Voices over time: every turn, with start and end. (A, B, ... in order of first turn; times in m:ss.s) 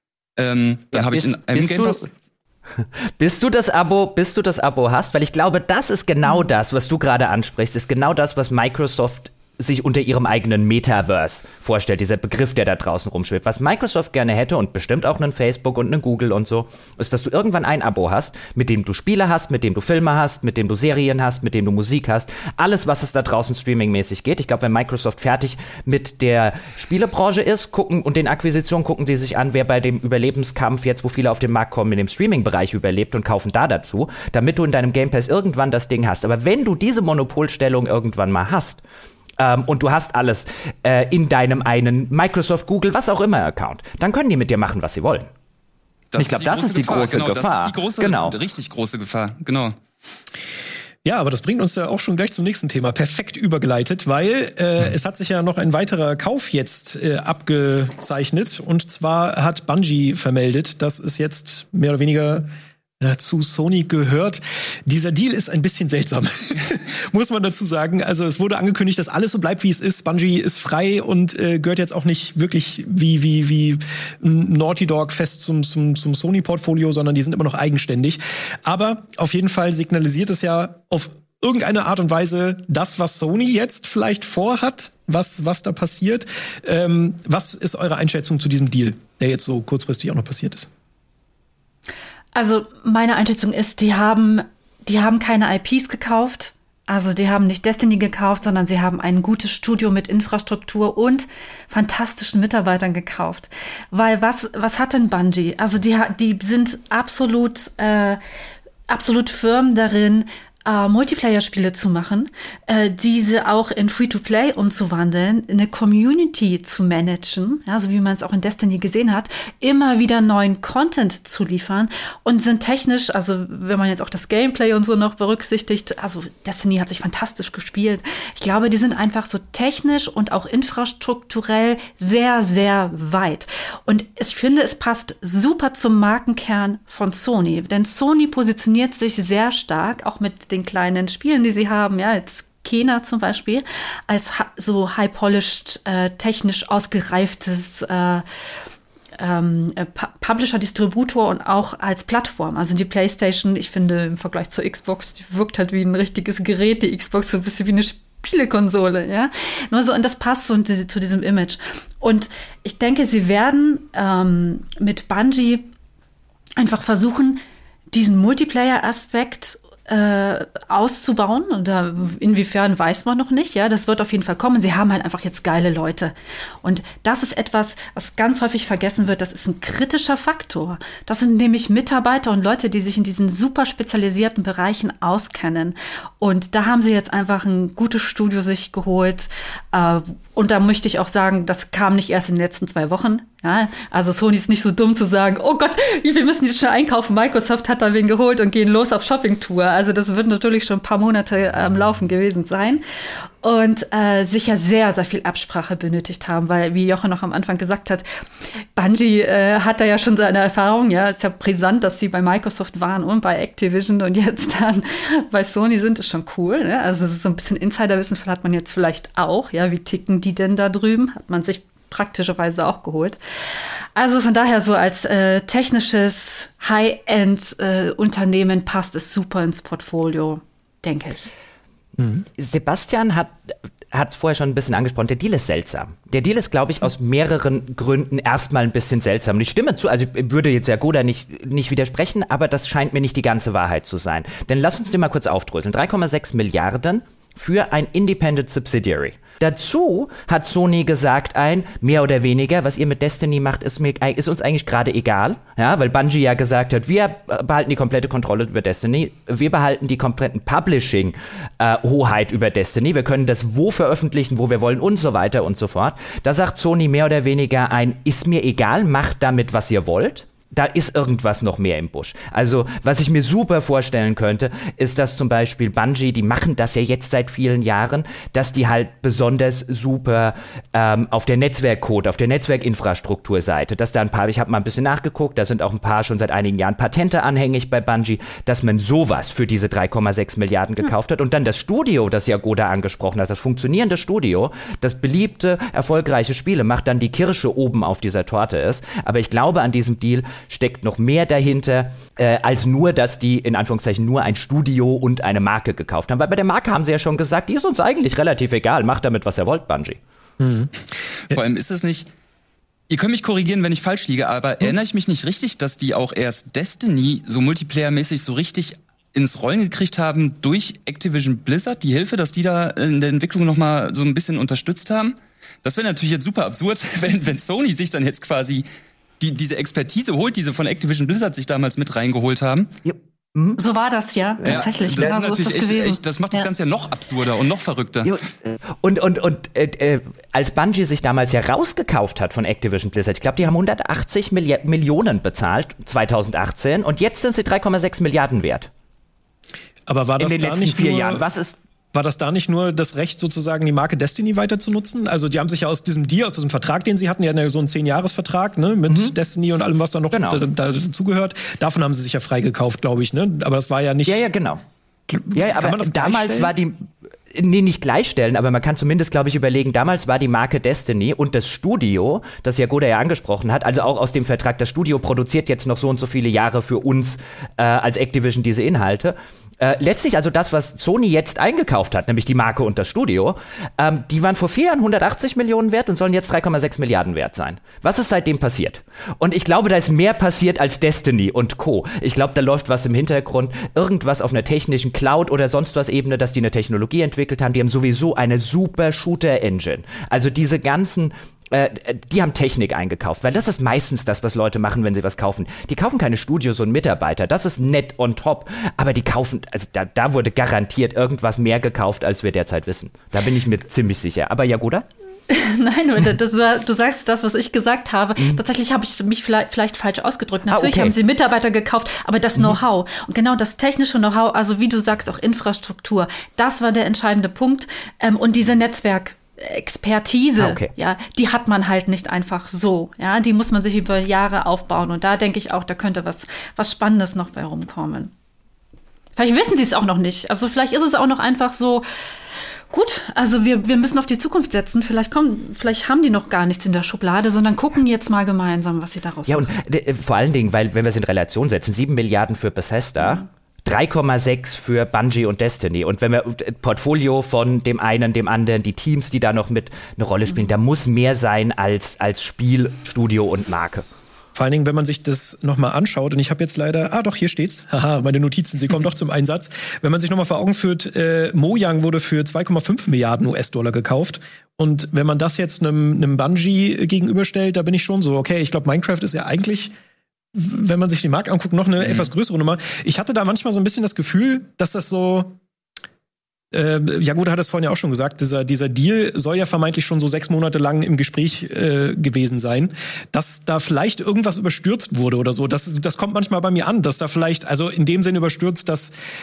0:00.4-0:02.1 A
0:00.9-0:02.1 B
0:02.8-0:38.8 B
0:39.4-0:45.3 B
0:46.1-0:49.8 A
0:46.2-0:48.4 B
0:51.0-1:02.5 C
1:03.0-1:30.7 C
1:32.3-1:48.2 D
1:48.9-2:28.2 D
2:29.2-2:45.7 D
2:46.6-2:47.4 D
2:47.9-3:22.8 D
3:23.4-3:28.0 D
3:28.8-3:51.3 D
3:52.2-5:10.0 B
5:10.4-5:10.7 C
5:11.3-5:12.1 A
5:12.9-5:28.6 A
5:29.2-5:32.7 A
5:32.8-5:33.6 B
5:33.6-5:36.5 D
5:34.4-5:38.2 A
5:38.0-5:48.7 B
5:49.9-5:51.2 C
5:50.2-5:51.6 B
5:51.9-6:04.2 C
5:58.9-5:59.1 B
6:00.1-6:00.4 B
6:04.0-6:04.6 B
6:05.1-6:06.5 C
6:05.3-6:54.8 B
6:55.3-7:18.1 D
7:00.5-7:01.0 B
7:10.4-7:10.7 B
7:19.2-7:21.8 D
7:22.7-7:29.5 D
7:29.3-7:43.8 B
7:44.3-7:59.7 C
8:00.3-8:05.4 C
8:06.5-8:18.9 C